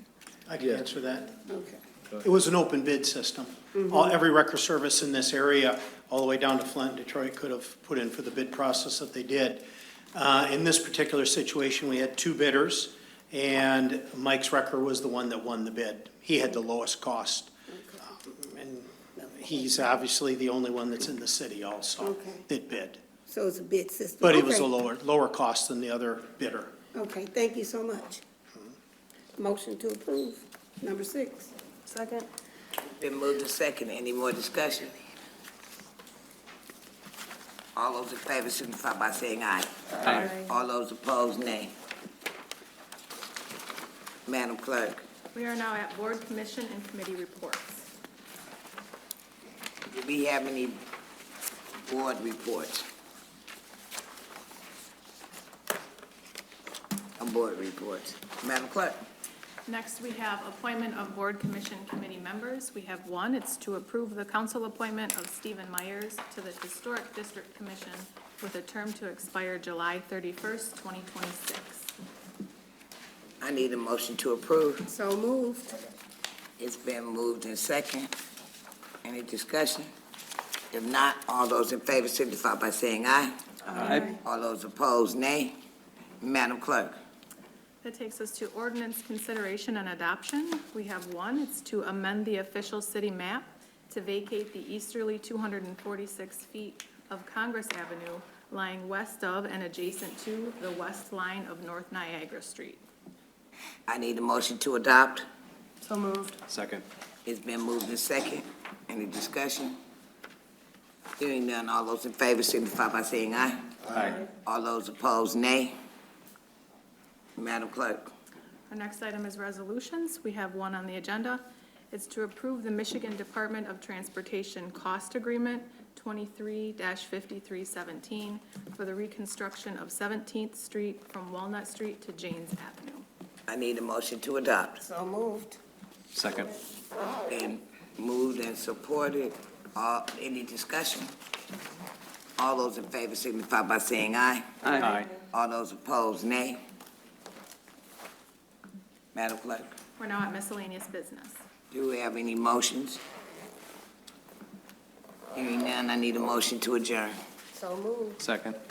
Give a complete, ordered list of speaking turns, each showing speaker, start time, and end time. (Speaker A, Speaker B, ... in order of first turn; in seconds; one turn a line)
Speaker A: 0.5-1.4
Speaker B: 1.5-1.8
Speaker A: 2.2-17.5
Speaker A: 18.1-23.0
Speaker B: 22.0-22.4
Speaker B: 23.3-24.7
Speaker A: 24.2-26.7
Speaker B: 26.9-28.2
Speaker B: 29.4-32.2
Speaker C: 32.9-35.0
Speaker C: 37.8-41.7
Speaker D: 40.0-40.3
Speaker C: 44.3-45.0
Speaker D: 45.3-47.9
Speaker C: 49.9-50.8
Speaker C: 51.8-52.8
Speaker C: 57.2-59.0
Speaker D: 59.7-71.9
Speaker C: 73.4-74.9
Speaker B: 74.9-75.8
Speaker C: 76.6-78.1
Speaker C: 79.0-79.9
Speaker C: 80.7-83.3
Speaker E: 83.8-84.1
Speaker D: 83.8-84.1
Speaker C: 84.1-85.5
Speaker C: 86.2-86.9
Speaker D: 87.8-102.8
Speaker C: 103.9-105.2
Speaker B: 105.8-106.4
Speaker E: 106.5-106.8
Speaker C: 107.2-109.8
Speaker C: 111.2-115.7
Speaker E: 113.9-114.2
Speaker C: 117.4-118.1
Speaker D: 118.7-133.1
Speaker C: 133.5-134.8
Speaker B: 134.8-135.6
Speaker E: 136.1-136.5
Speaker C: 137.2-141.1
Speaker C: 142.4-144.6
Speaker E: 144.6-145.1
Speaker C: 145.3-146.6
Speaker C: 149.1-149.8
Speaker D: 150.0-151.4
Speaker C: 151.7-153.0
Speaker C: 155.3-157.2
Speaker B: 157.5-158.2
Speaker E: 158.2-158.6